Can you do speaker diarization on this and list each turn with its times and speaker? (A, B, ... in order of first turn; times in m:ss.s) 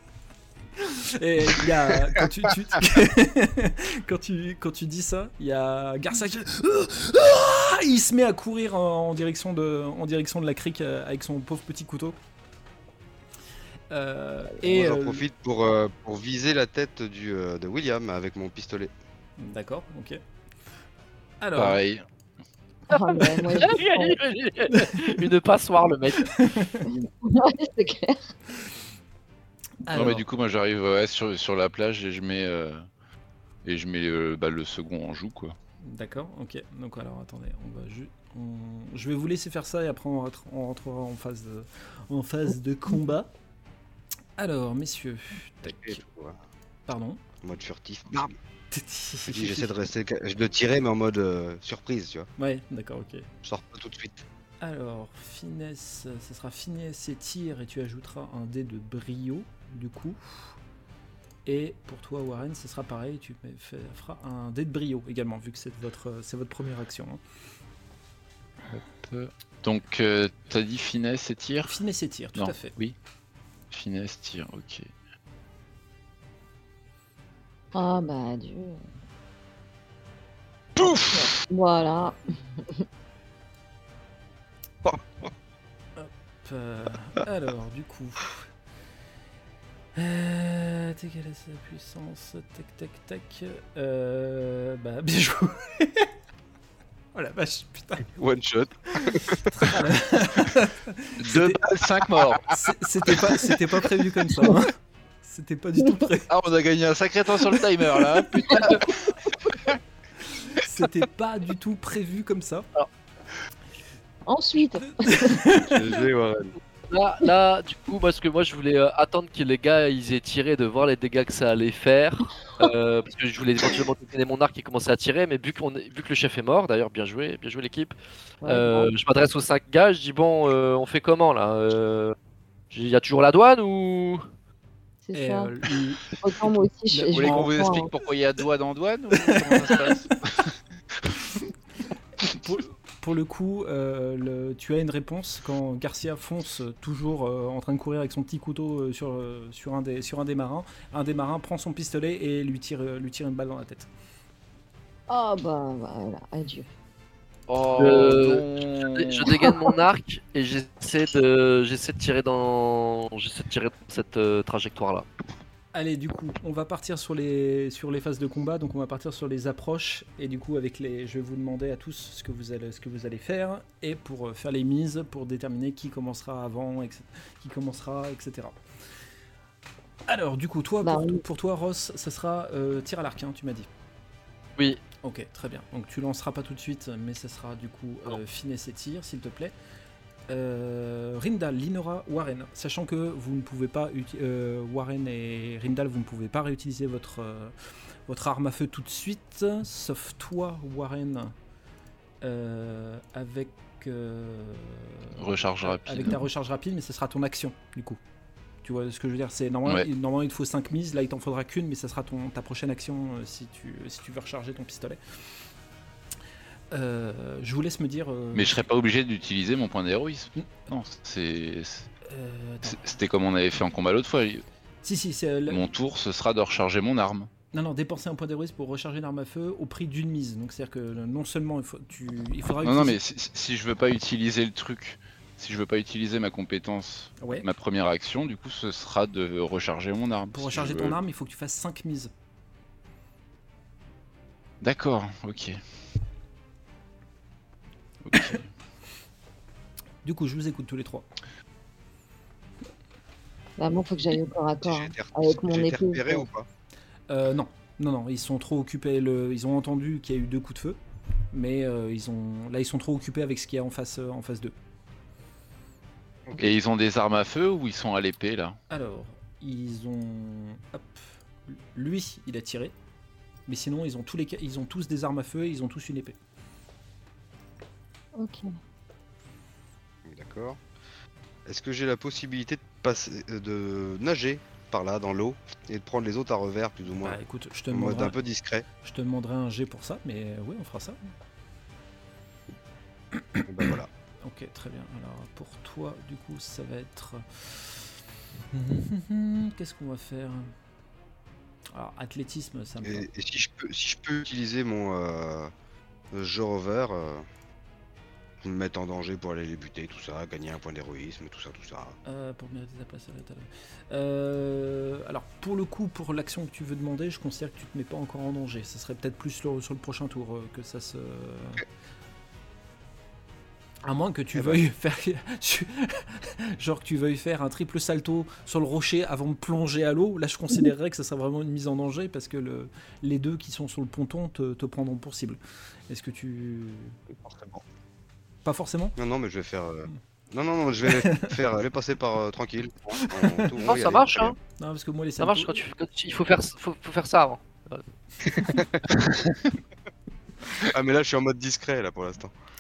0:00.8-0:12.2 A
0:13.9-0:15.2 A
0:14.6-0:18.9 B
0:19.4-0:20.2 A
0:21.4-0:21.8 A
0:21.6-0:22.0 C
0:22.9-0:24.2 D
0:23.6-0:26.3 E
0:24.8-0:25.0 A
0:26.3-0:26.9 A
0:26.9-0:28.4 D
0:29.9-0:30.3 A
0:29.9-0:32.8 C
0:33.6-0:35.6 C
0:35.8-0:43.3 A
0:44.4-0:46.0 A
0:45.6-0:46.4 B
0:46.9-0:47.2 A
0:47.4-0:48.4 B
0:48.7-0:49.7 A
0:49.3-0:52.3 B
0:52.4-0:53.3 A
0:53.4-0:54.2 B
0:54.6-1:00.6 A
1:01.5-1:07.2 A
1:08.7-1:11.7 C
1:11.7-1:12.8 A
1:12.4-1:13.0 C
1:13.7-1:14.9 C
1:17.7-1:18.8 D
1:20.8-1:22.8 D
1:20.9-1:21.2 B
1:26.0-1:28.5 A
1:30.0-1:36.1 A
1:37.1-1:38.1 A
1:38.2-1:39.8 B
1:39.0-1:41.6 A
1:41.2-1:42.7 C
1:41.9-1:42.4 B
1:42.5-1:46.3 A
1:46.3-1:49.0 C
1:50.4-1:52.7 A
1:54.3-1:55.4 D
1:55.1-1:56.0 A
1:55.5-1:56.5 B
1:56.9-2:12.2 E
2:08.4-2:08.9 D
2:12.7-2:14.3 E
2:15.0-2:15.5 D
2:15.1-2:16.1 A
2:16.1-2:17.9 D
2:16.9-2:17.5 A
2:17.1-2:20.1 C
2:19.2-2:20.1 A
2:22.2-2:33.9 A
2:35.1-2:36.7 D
2:37.5-2:39.4 C
2:37.7-2:45.1 E
2:45.7-2:58.6 A
3:00.1-3:03.7 A
3:00.8-3:01.2 D
3:04.6-3:04.8 E
3:05.0-3:09.5 A
3:10.3-3:21.3 A
3:22.2-3:28.0 A
3:25.2-3:26.2 C
3:28.6-3:35.2 A
3:36.7-3:38.7 A
3:38.3-3:41.9 C
3:42.0-3:42.9 A
3:42.6-3:44.4 C
3:44.8-3:45.6 A
3:45.5-3:47.3 C
3:47.5-3:53.0 A
3:52.6-4:01.0 C
3:57.2-3:57.5 A
4:00.3-4:02.1 A
4:04.6-4:05.6 C
4:08.0-4:08.5 C
4:10.0-4:11.1 A
4:13.6-4:16.3 D
4:14.6-4:16.5 B
4:17.1-4:20.8 A
4:21.3-4:24.6 A
4:26.4-4:28.6 C
4:28.7-4:32.7 A
4:33.5-4:36.2 A
4:38.2-4:38.5 D
4:40.0-4:40.6 B
4:41.5-4:47.2 B
4:47.0-4:48.2 A
4:47.7-4:48.6 B
4:48.8-4:51.0 A
4:53.1-4:58.0 A
4:53.4-4:53.9 B
4:58.5-5:00.5 A
5:01.7-5:03.1 A
5:02.8-5:05.5 B
5:06.1-5:07.3 B
5:08.4-5:12.0 B
5:12.0-5:21.6 A
5:23.8-5:37.0 A
5:24.3-5:24.6 B
5:37.1-5:37.6 B
5:38.4-5:39.0 A
5:39.0-5:44.4 B
5:40.9-5:41.3 A
5:43.1-5:43.5 A
5:43.6-5:44.4 E
5:44.6-5:45.6 A
5:45.2-5:48.6 E
5:48.5-5:49.2 B
5:50.6-5:52.4 B